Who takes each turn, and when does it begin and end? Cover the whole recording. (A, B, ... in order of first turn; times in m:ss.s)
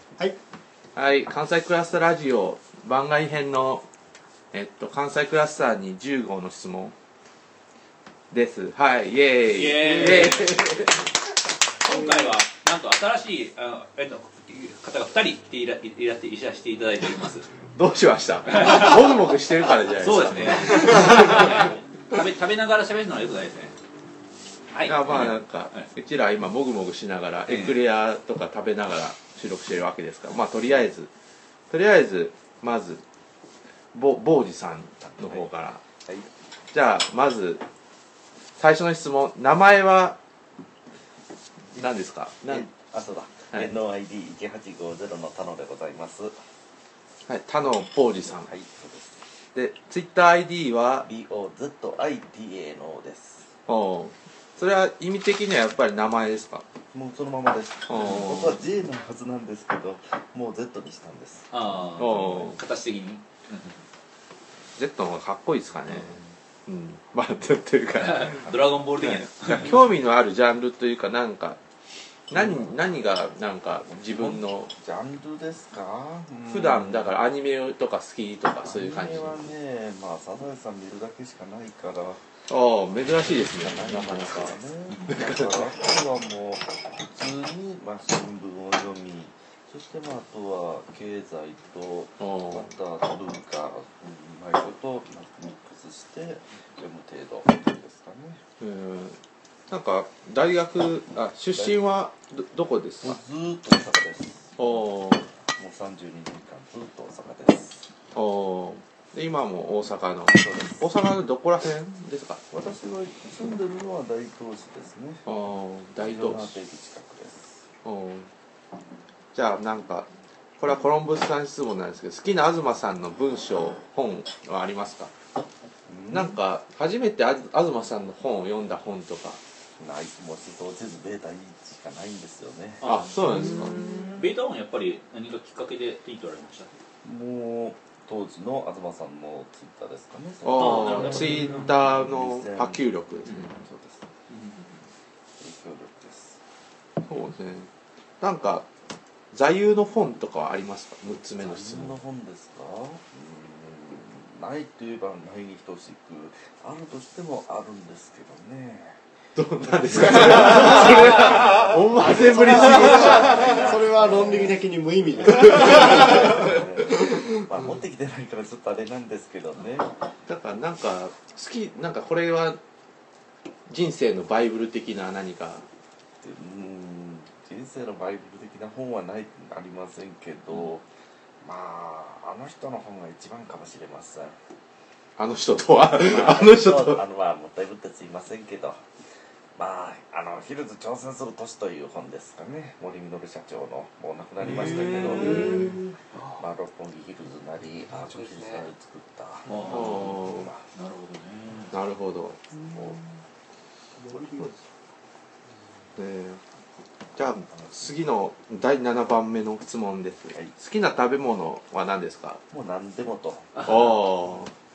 0:00.9-0:03.8 A
0:04.5-0:06.9 A
0:08.3-0:10.9 A
0:09.5-0:11.1 B
0:11.8-0:17.5 B
0:17.7-0:21.7 A
0:18.4-0:19.3 B
0:19.9-0:23.7 B
0:24.7-0:25.9 B
0:24.8-0:31.1 A
0:27.5-0:27.8 B
0:31.7-0:33.0 A
0:33.9-0:35.8 A
0:35.0-0:35.5 C
0:36.0-0:36.3 C
0:36.7-0:37.6 A
0:38.6-0:40.2 A
0:41.7-0:42.7 A
0:42.5-0:46.4 C
0:47.3-0:48.5 A
0:48.3-0:49.2 C
0:49.5-0:51.1 A
0:51.0-0:53.5 C
0:53.7-0:56.6 A
0:56.9-1:01.6 C
0:57.9-0:58.6 A
1:01.5-1:03.8 B
1:02.0-1:02.6 A
1:04.8-1:08.4 A
1:08.0-1:09.8 B
1:09.5-1:11.6 A
1:12.3-1:12.7 C
1:12.3-1:14.7 A
1:13.8-1:17.1 C
1:16.5-1:19.5 A
1:18.6-1:22.2 C
1:22.5-1:24.6 A
1:23.4-1:38.4 C
1:25.1-1:25.6 A
1:32.2-1:32.6 A
1:38.6-1:39.2 A
1:39.7-1:43.2 A
1:43.0-1:44.8 C
1:44.6-1:45.3 A
1:45.5-1:47.9 C
1:48.1-1:52.4 A
1:50.3-1:50.8 C
1:52.5-1:55.3 C
1:55.2-1:56.5 A
1:56.0-1:57.6 C
1:57.8-1:58.3 A
1:59.3-2:00.1 A
2:00.6-2:05.1 A
2:05.8-2:06.4 C
2:06.1-2:09.4 A
2:09.8-2:12.8 C
2:12.8-2:13.3 B
2:12.8-2:13.8 A
2:14.1-2:16.7 B
2:17.0-2:22.8 C
2:20.4-2:23.5 A
2:20.5-2:21.7 B
2:23.5-2:24.0 C
2:24.3-2:24.9 B
2:25.4-2:26.4 C
2:27.0-2:27.7 A
2:28.2-2:28.7 A
2:29.3-2:32.0 A
2:31.4-2:39.0 C
2:39.4-2:43.5 A
2:39.9-2:44.6 C
2:40.3-2:47.2 D
2:45.3-2:49.9 C
2:50.3-2:52.6 A
2:53.7-2:55.6 A
2:56.2-3:00.8 C
3:01.4-3:04.4 C
3:05.2-3:07.0 A
3:06.0-3:08.8 C
3:09.6-3:15.7 C
3:14.8-3:15.3 B
3:15.2-3:15.8 D
3:16.1-3:16.4 B
3:16.4-3:20.6 C
3:18.1-3:18.7 D
3:19.5-3:21.7 B
3:19.7-3:20.5 A
3:21.7-3:22.4 A
3:22.7-3:23.0 C
3:24.1-3:24.4 C
3:24.1-3:24.5 D
3:26.0-3:26.4 A
3:27.2-3:32.4 A
3:27.5-3:27.9 C
3:32.5-3:33.9 C
3:33.6-3:34.5 A